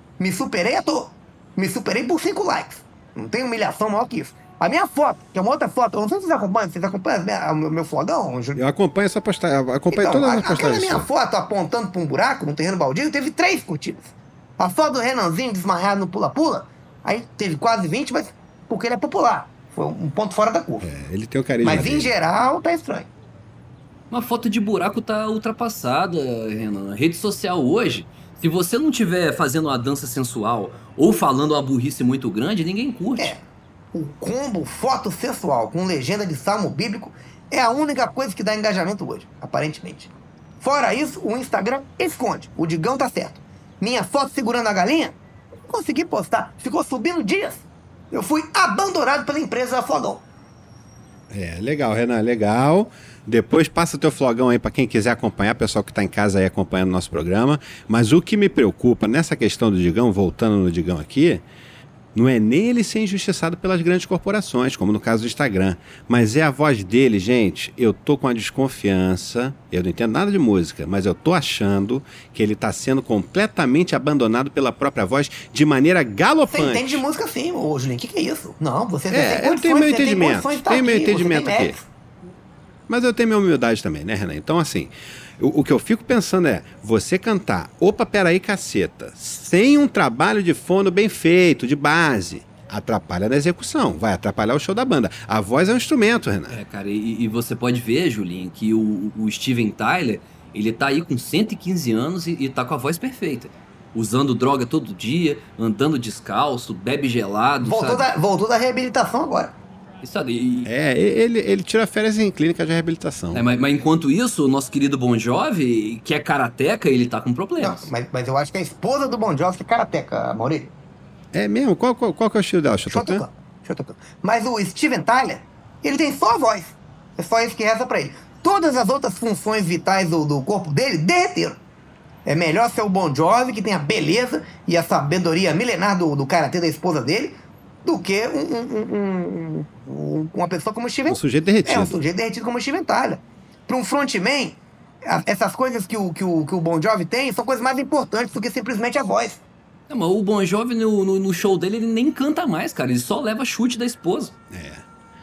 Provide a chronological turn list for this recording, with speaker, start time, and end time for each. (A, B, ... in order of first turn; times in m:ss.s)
0:00.2-0:08.6 A
0:08.6-0:11.1 B
0:09.9-0:20.9 A
0:20.8-0:22.1 B
0:21.6-0:23.1 A
0:24.1-0:33.3 C
0:33.9-0:50.2 A
0:51.3-1:01.4 B
1:02.1-1:17.0 B
1:16.5-1:21.9 A
1:19.1-1:21.8 B
1:22.9-1:36.6 B
1:36.5-1:48.1 C
1:47.6-1:49.5 A
1:50.0-1:50.7 C
1:50.7-1:53.4 B
1:53.3-1:57.9 C
1:57.6-2:00.7 A
2:01.3-2:03.2 B
2:02.9-2:11.6 A
2:12.2-2:29.4 A
2:21.1-2:22.0 B
2:29.9-2:34.3 C
2:34.5-2:34.8 B